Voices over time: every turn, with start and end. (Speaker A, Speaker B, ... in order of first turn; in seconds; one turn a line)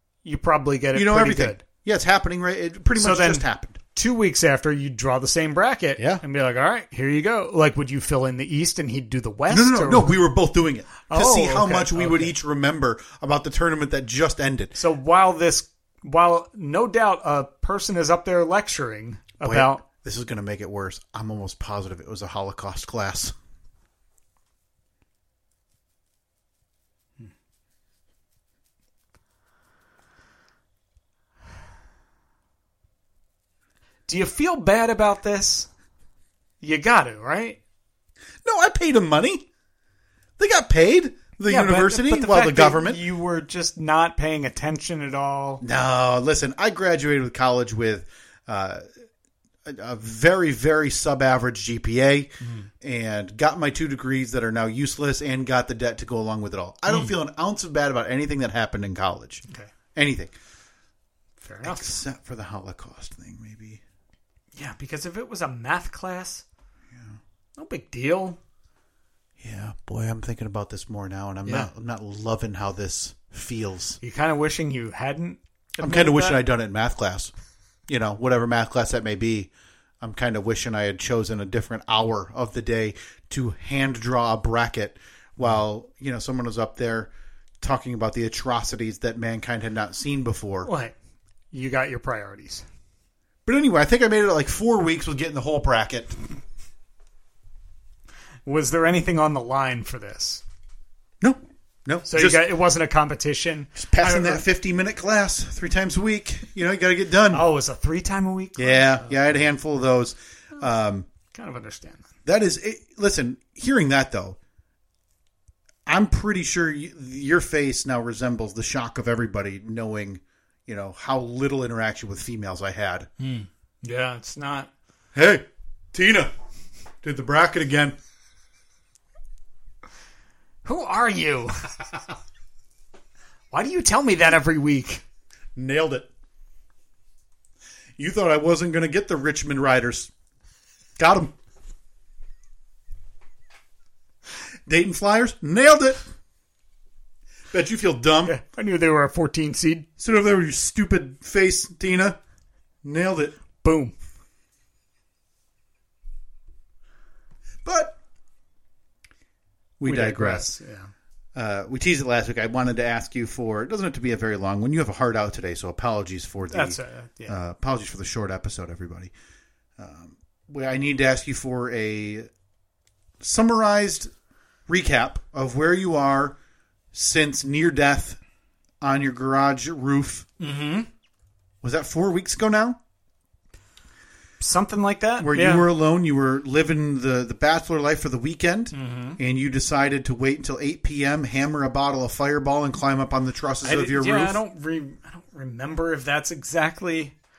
Speaker A: 0.2-1.6
Speaker B: 0.9-3.8
Speaker A: 3.0-10.2
Speaker B: 6.0-6.2
Speaker B: 9.5-14.8
Speaker A: 11.1-12.3
Speaker A: 14.8-19.8
Speaker B: 19.4-23.4
Speaker A: 34.1-35.7
Speaker A: 36.6-37.6
Speaker B: 38.4-39.5
Speaker B: 40.4-43.0
Speaker A: 41.5-45.6
Speaker B: 45.6-48.8
Speaker B: 49.6-59.4
Speaker A: 52.4-52.7
Speaker A: 56.9-57.1
Speaker B: 60.0-60.3
Speaker A: 61.4-62.0
Speaker B: 61.6-63.8
Speaker A: 64.5-66.5
Speaker B: 66.9-67.2
Speaker A: 67.6-68.4
Speaker B: 69.4-74.0
Speaker A: 74.0-76.4
Speaker B: 75.8-77.3
Speaker B: 77.9-87.1
Speaker B: 87.6-90.7
Speaker A: 90.7-90.9
Speaker A: 91.5-92.7
Speaker B: 93.5-96.2
Speaker A: 98.5-100.4
Speaker B: 101.2-102.5
Speaker A: 102.1-104.5
Speaker B: 103.8-107.5
Speaker A: 107.3-109.5
Speaker B: 108.6-111.1
Speaker A: 111.3-112.1
Speaker B: 112.3-114.4
Speaker B: 115.9-123.1
Speaker A: 123.2-124.7
Speaker B: 125.1-126.3
Speaker B: 127.0-128.0
Speaker A: 130.6-131.7
Speaker A: 133.5-135.0
Speaker B: 135.6-136.1
Speaker B: 138.0-140.1
Speaker B: 141.0-141.3
Speaker B: 144.7-146.1
Speaker B: 147.5-148.4
Speaker A: 148.2-149.9
Speaker B: 150.0-152.2
Speaker B: 152.8-153.4
Speaker A: 153.6-153.9
Speaker B: 157.6-158.0
Speaker B: 159.8-160.6
Speaker A: 159.8-160.9
Speaker B: 161.3-169.1
Speaker A: 166.5-167.4
Speaker B: 169.8-172.3
Speaker B: 173.2-174.1
Speaker B: 174.7-176.4
Speaker B: 176.9-178.2
Speaker B: 178.8-180.3
Speaker A: 180.4-180.9
Speaker B: 181.6-182.8
Speaker A: 184.4-185.7
Speaker B: 185.2-194.4
Speaker A: 188.7-189.2
Speaker A: 193.6-197.1